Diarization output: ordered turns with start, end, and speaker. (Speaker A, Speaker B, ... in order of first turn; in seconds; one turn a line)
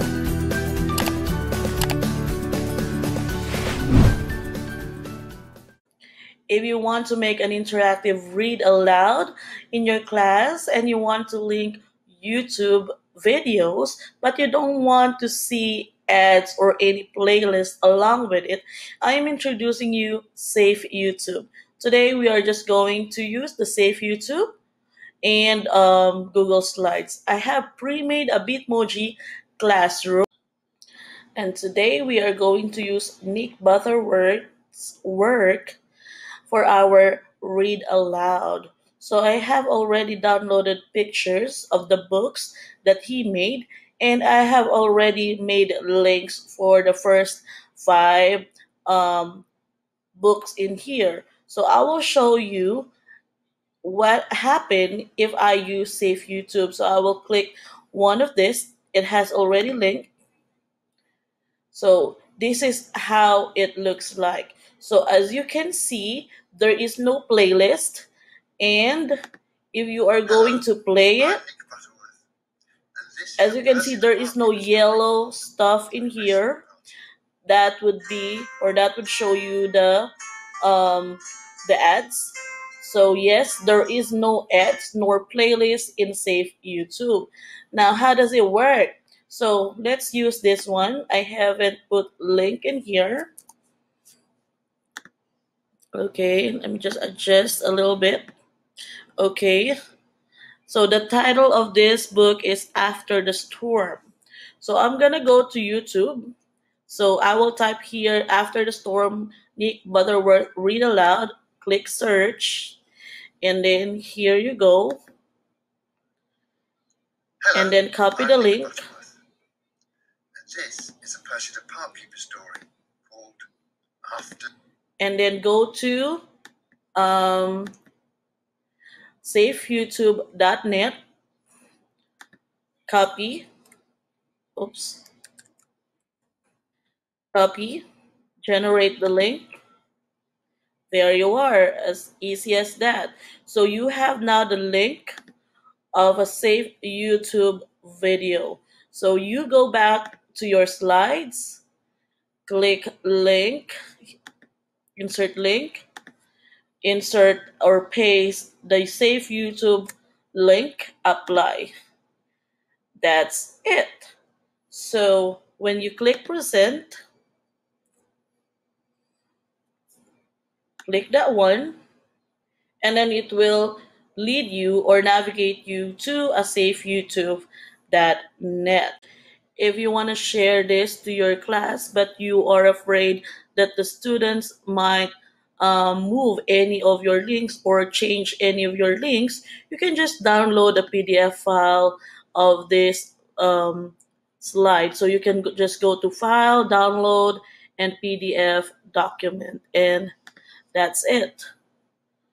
Speaker A: 6.5-24.5
Speaker A: 25.2-30.2
Speaker A: 31.4-35.8
Speaker A: 36.5-49.5
Speaker A: 50.1-52.9
Speaker A: 53.8-60.1
Speaker A: 61.7-68.1
Speaker A: 68.6-69.1
Speaker A: 69.7-71.4
Speaker B: 70.3-70.6
Speaker B: 71.2-72.2
Speaker B: 72.9-75.3
Speaker A: 73.4-76.6
Speaker B: 75.9-76.8
Speaker A: 77.5-93.3
Speaker A: 95.9-98.2
Speaker A: 99.2-99.7
Speaker A: 100.7-104.0
Speaker A: 104.6-106.3
Speaker A: 106.9-112.8
Speaker A: 113.4-115.0
Speaker B: 117.4-119.1
Speaker A: 117.5-118.8
Speaker B: 120.3-123.4
Speaker B: 124.0-124.5
Speaker A: 125.0-126.2
Speaker A: 126.9-127.7
Speaker A: 129.2-130.9
Speaker A: 132.9-133.5
Speaker A: 134.6-135.0
Speaker A: 137.3-137.8
Speaker A: 138.4-139.4
Speaker A: 140.9-145.2
Speaker A: 145.9-151.6
Speaker A: 152.5-153.8
Speaker A: 154.9-155.8
Speaker A: 156.8-161.7
Speaker A: 163.0-164.1
Speaker A: 164.7-166.9
Speaker A: 170.8-171.8
Speaker A: 172.8-179.0
Speaker A: 179.6-200.1
Speaker A: 200.7-201.4